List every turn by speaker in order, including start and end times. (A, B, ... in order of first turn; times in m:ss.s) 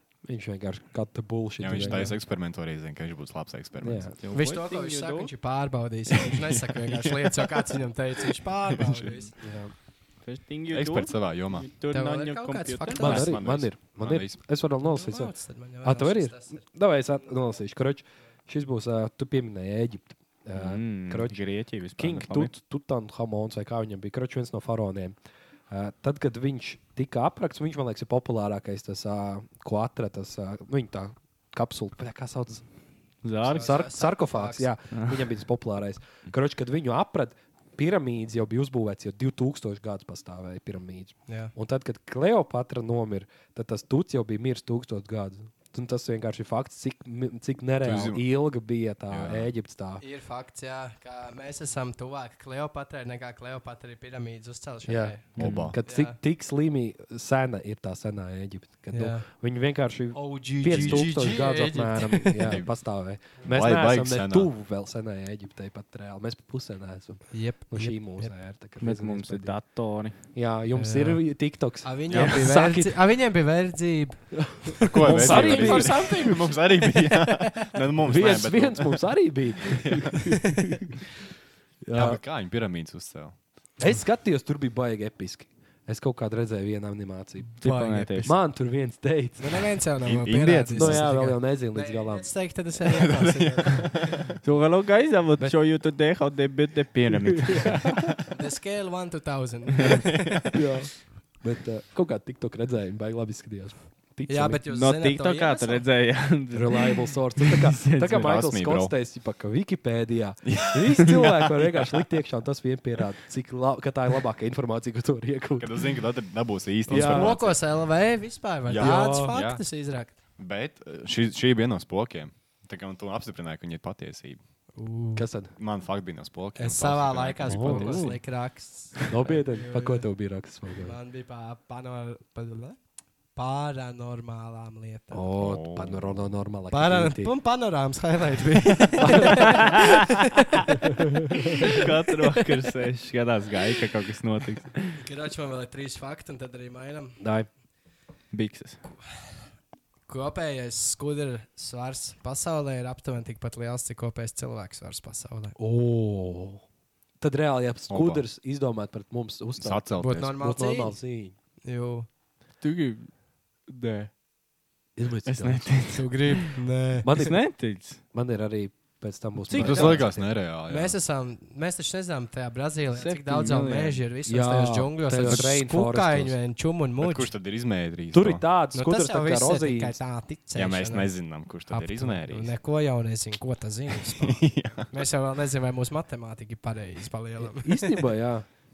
0:00.2-0:02.1 A
0:01.6-0:04.1 B
0:03.8-0:04.2 A
0:04.2-0:05.3 C
0:04.3-0:09.4 D
0:08.7-0:09.1 B
0:09.4-0:09.7 A
0:10.2-0:13.3 C
0:10.7-0:11.7 B
0:11.9-0:13.3 D
0:13.0-0:21.4 A
0:13.0-0:14.4 B
0:14.8-0:16.6 D
0:20.5-0:22.5 C
0:21.9-0:25.2 A
0:25.7-0:32.6 A
0:33.2-0:33.8 C
0:33.4-0:34.7 D
0:33.5-0:50.0 A
0:41.3-0:41.5 D
0:47.8-0:48.2 B
0:49.1-0:49.5 B
0:50.0-0:55.2 D
0:54.9-1:09.6 A
0:55.4-0:55.8 C
0:55.4-0:55.8 B
0:55.8-0:56.2 D
0:58.9-0:59.3 D
1:00.1-1:02.5 D
1:00.7-1:01.2 B
1:02.5-1:02.7 B
1:03.4-1:04.5 B
1:07.3-1:08.3 D
1:08.8-1:10.2 C
1:10.3-1:13.0 A
1:10.8-1:11.2 D
1:11.8-1:17.7 D
1:14.4-1:16.1 A
1:14.8-1:19.0 B
1:18.0-1:20.8 A
1:19.7-1:20.2 B
1:21.8-1:22.2 A
1:21.9-1:23.4 B
1:23.8-1:27.5 A
1:27.6-1:28.4 D
1:27.6-1:28.3 C
1:28.2-1:29.7 A
1:29.4-1:34.1 D
1:30.0-1:31.1 B
1:30.7-1:32.3 A
1:32.8-1:34.3 B
1:34.4-1:38.0 C
1:37.5-1:37.8 A
1:38.3-1:40.4 D
1:40.5-1:44.6 A
1:44.3-1:45.9 D
1:44.7-1:48.4 C
1:46.5-1:55.7 A
1:48.1-1:48.9 B
1:50.5-1:52.0 B
1:55.6-1:57.6 B
1:56.9-1:57.4 A
1:56.9-2:00.2 D
1:58.7-1:59.6 B
1:58.8-1:59.4 A
2:00.4-2:04.4 B
2:04.8-2:05.3 D
2:05.2-2:05.5 A
2:05.6-2:08.1 B
2:06.6-2:10.1 D
2:07.4-2:08.2 A
2:07.7-2:08.1 C
2:09.1-2:11.0 A
2:10.8-2:12.8 D
2:13.4-2:15.3 D
2:15.1-2:17.3 A
2:15.4-2:16.3 B
2:16.7-2:20.7 D
2:19.0-2:19.8 A
2:21.5-2:21.8 D
2:21.7-2:25.0 C
2:25.0-2:27.2 D
2:27.2-2:27.5 A
2:28.3-2:28.8 C
2:30.1-2:35.6 D
2:35.6-2:36.6 A
2:37.2-2:41.4 A
2:37.9-2:38.2 B
2:39.6-2:40.4 B
2:40.0-2:41.0 D
2:41.6-2:42.1 D
2:42.6-2:43.1 C
2:43.7-2:44.1 C
2:45.0-2:46.0 A
2:45.3-2:46.5 C
2:45.9-2:47.1 D
2:47.0-2:47.6 A
2:47.2-2:48.0 C
2:48.1-2:50.4 A
2:49.5-2:51.0 B
2:49.6-2:50.0 D
2:50.7-2:57.3 D
2:53.0-2:54.0 C
2:54.3-2:56.4 A
2:55.2-2:55.5 B
2:57.0-2:58.4 B
2:58.1-3:00.0 A
2:58.7-3:01.2 D
3:00.6-3:02.6 B
3:01.7-3:08.0 D
3:04.2-3:04.9 B
3:07.4-3:08.5 A